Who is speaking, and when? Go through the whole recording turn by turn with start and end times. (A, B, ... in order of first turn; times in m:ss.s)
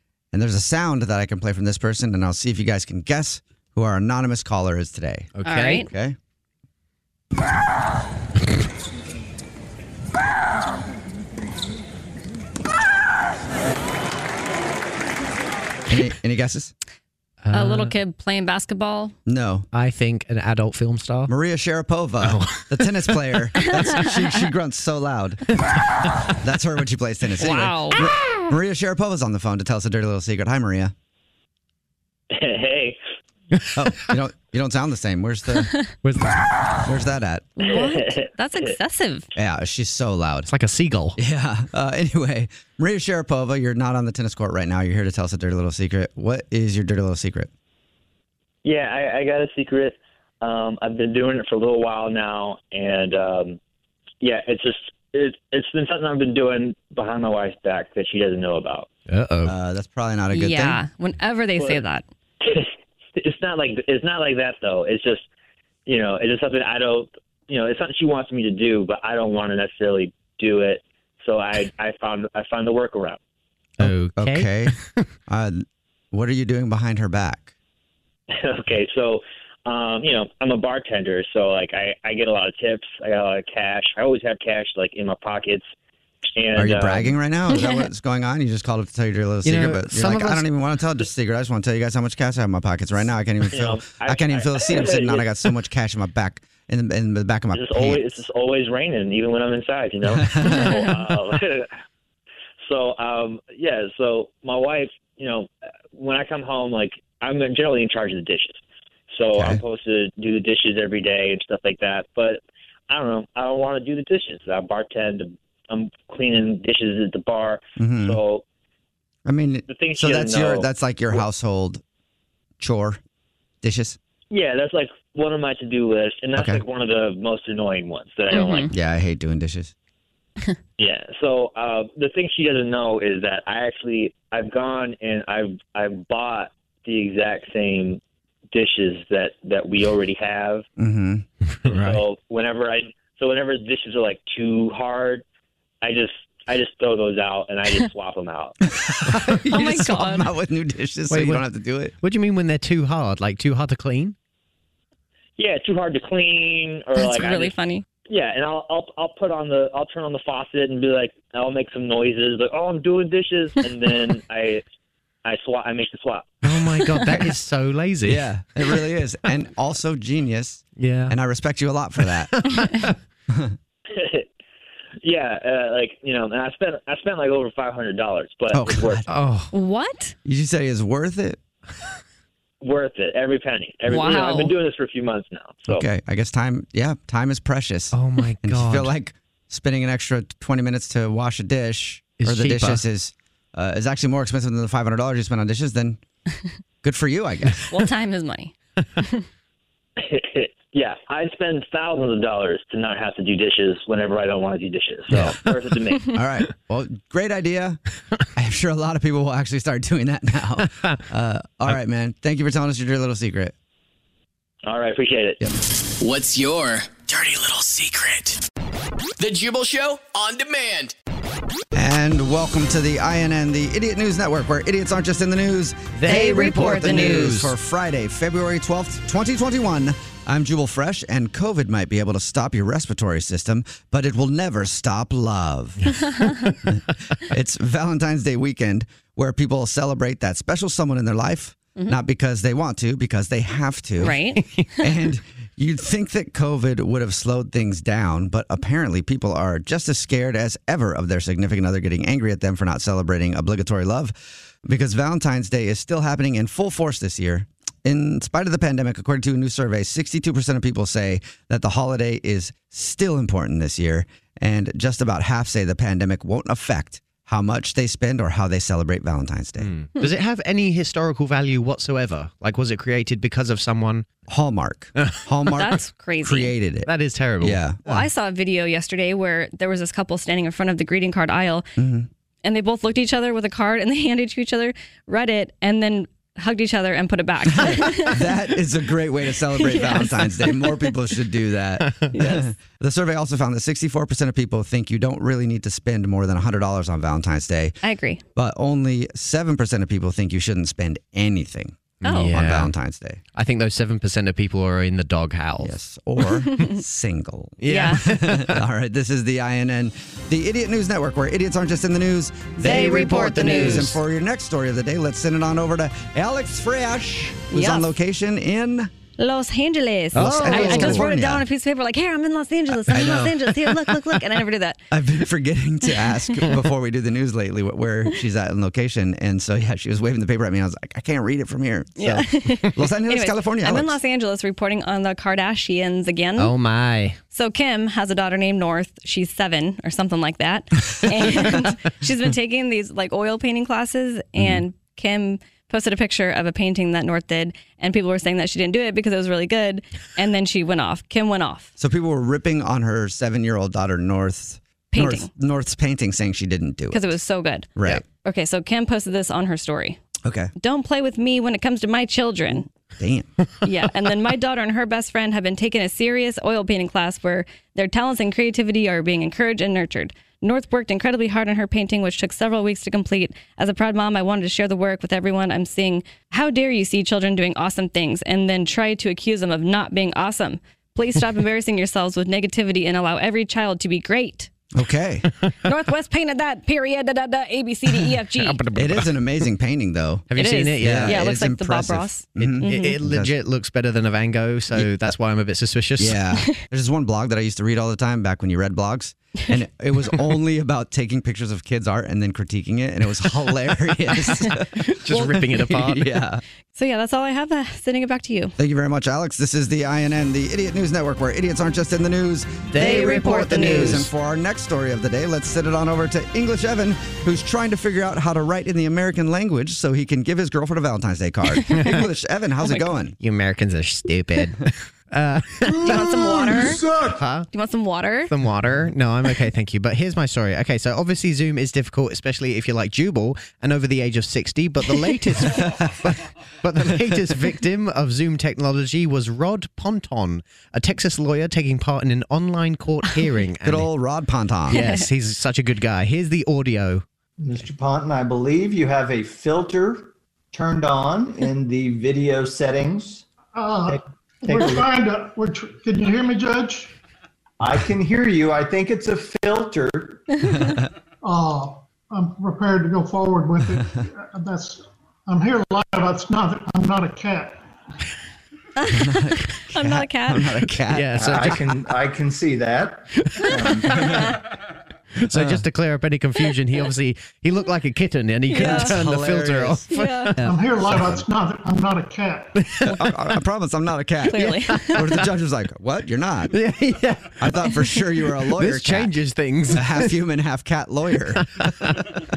0:00.3-0:06.2 A
0:05.4-0:05.8 B
0:05.4-0:05.9 C
0:15.9-0:16.7 A
0:17.4-0:17.9 B
0:17.5-0:19.2 C
0:19.3-0:19.7 A
0:19.7-0:21.3 B
0:21.3-0:25.5 A
0:22.2-0:22.7 B
0:26.4-0:30.9 A
0:27.4-0:28.0 C
0:32.3-0:33.0 D
0:33.8-0:35.7 A
0:36.0-0:36.4 B
0:36.8-0:37.5 A
0:37.6-0:39.3 C
0:37.6-0:38.2 D
0:39.4-0:40.5 A
0:40.5-0:41.2 B
0:41.2-0:47.5 A
0:48.6-0:53.6 D
0:54.2-0:58.9 D
0:59.1-0:59.6 B
0:59.4-1:00.8 A
1:00.3-1:02.0 C
1:02.4-1:05.2 D
1:05.9-1:13.2 D
1:13.8-1:15.1 B
1:13.8-1:14.8 A
1:15.3-1:17.5 A
1:18.3-1:25.7 D
1:26.4-1:27.1 D
1:26.6-1:38.2 A
1:27.5-1:27.9 C
1:29.4-1:30.5 B
1:33.5-1:35.3 D
1:37.5-1:41.7 D
1:40.1-1:41.0 A
1:40.4-1:40.9 C
1:42.7-1:48.6 D
1:49.1-1:58.4 D
1:49.4-1:49.6 A
1:57.8-1:58.2 A
1:59.3-2:01.8 A
1:59.7-2:00.7 D
2:02.6-2:03.0 A
2:03.6-2:04.0 A
2:04.3-2:08.7 D
2:06.4-2:06.6 A
2:08.3-2:08.7 C
2:08.7-2:09.7 A
2:10.8-2:18.0 D
2:18.5-2:20.7 D
2:20.8-2:21.3 A
2:21.5-2:22.0 B
2:21.7-2:25.2 D
2:25.8-2:28.6 D
2:28.8-2:31.9 A
2:29.2-2:29.4 B
2:29.5-2:30.3 C
2:31.1-2:31.5 B
2:32.0-2:34.2 B
2:35.4-2:37.6 D
2:37.0-2:37.8 C
2:38.1-2:44.6 D
2:45.2-2:46.4 D
2:46.4-2:48.3 B
2:48.0-2:52.4 A
2:50.8-2:51.2 B
2:52.3-2:53.0 B
2:53.3-2:53.6 A
2:53.9-2:54.3 D
2:55.0-2:59.0 D
2:58.5-2:59.0 A
2:59.1-2:59.5 B
2:59.5-3:00.2 C
3:00.2-3:01.4 A
3:02.6-3:05.8 D
3:03.9-3:04.6 C
3:05.7-3:16.0 A
3:07.9-3:08.9 B
3:12.2-3:12.8 B
3:16.8-3:17.7 A
3:17.7-3:19.2 C
3:20.0-3:26.1 D
3:25.1-3:25.4 A
3:25.1-3:25.5 B
3:26.1-3:27.8 A
3:28.4-3:33.5 A
3:34.7-3:35.4 D
3:36.0-3:38.4 E
3:39.2-3:41.0 E
3:41.7-3:55.9 A
3:46.0-3:47.5 B
3:46.1-3:47.4 C
3:55.9-3:56.6 B
3:56.2-3:56.5 C
3:56.7-4:04.2 A
4:04.0-4:04.4 C
4:04.4-4:04.7 B
4:04.8-4:29.7 A
4:29.6-4:34.1 B
4:34.3-4:37.8 A
4:35.5-4:36.5 C
4:36.9-4:38.1 B
4:37.9-4:41.7 C
4:41.8-4:42.1 A
4:42.4-4:48.3 C
4:47.5-4:57.8 A
4:49.6-4:50.7 C
4:52.1-4:52.4 C
4:57.8-4:58.2 C
4:58.4-5:03.2 A
5:02.0-5:02.3 C
5:02.0-5:02.7 B
5:03.4-5:05.8 B
5:05.6-5:18.9 A
5:07.6-5:08.6 B
5:07.7-5:08.0 C
5:12.6-5:14.0 C
5:12.7-5:14.0 B
5:17.5-5:17.9 C
5:19.2-5:24.8 C
5:20.1-5:21.1 B
5:20.1-5:21.4 A
5:22.7-5:24.2 A
5:24.9-5:34.0 A
5:32.0-5:36.6 C
5:36.4-5:37.2 B
5:37.3-5:51.7 C
5:51.8-5:57.2 A
5:54.9-5:55.3 C
5:56.9-5:57.7 C
5:57.8-5:58.0 A
5:58.2-6:00.0 C
6:00.2-6:00.5 A
6:00.6-6:02.7 C
6:03.0-6:03.3 A
6:03.6-6:24.5 C
6:24.7-6:25.3 A
6:25.6-6:28.6 C
6:28.3-6:29.2 B
6:28.8-6:33.4 A
6:30.3-6:31.3 B
6:30.4-6:33.0 C
6:32.4-6:36.2 B
6:34.7-6:35.1 A
6:36.0-6:46.4 A
6:44.9-6:46.1 B
6:46.7-6:48.6 C
6:48.6-7:03.2 A
6:52.7-6:54.1 B
6:52.8-6:54.1 C
7:01.7-7:02.0 C
7:03.2-7:07.5 B
7:05.8-7:06.9 C
7:07.5-7:08.3 C
7:08.3-7:23.9 B
7:14.9-7:15.2 C
7:15.6-7:15.9 A
7:23.6-7:24.8 A
7:24.7-7:27.0 B
7:24.7-7:25.1 C
7:27.4-7:33.3 F
7:33.5-7:36.9 G
7:33.9-7:34.9 F
7:37.6-7:40.5 F
7:40.6-7:40.8 A
7:41.2-7:47.6 G
7:48.8-7:50.6 C
7:48.9-7:51.4 A
7:50.9-7:51.7 B
7:51.1-7:54.3 F
7:53.2-7:53.5 B
7:55.2-8:01.2 B
7:55.3-7:55.6 A
7:58.5-7:59.0 C
7:58.6-7:59.9 A
7:59.9-8:00.4 C
8:00.4-8:02.6 G
8:00.8-8:01.2 A
8:02.6-8:03.1 B
8:02.8-8:06.6 A
8:04.3-8:05.1 C
8:04.5-8:05.2 B
8:06.5-8:07.7 B
8:07.4-8:09.1 A
8:08.4-8:10.1 B
8:09.7-8:12.2 A
8:11.6-8:12.1 B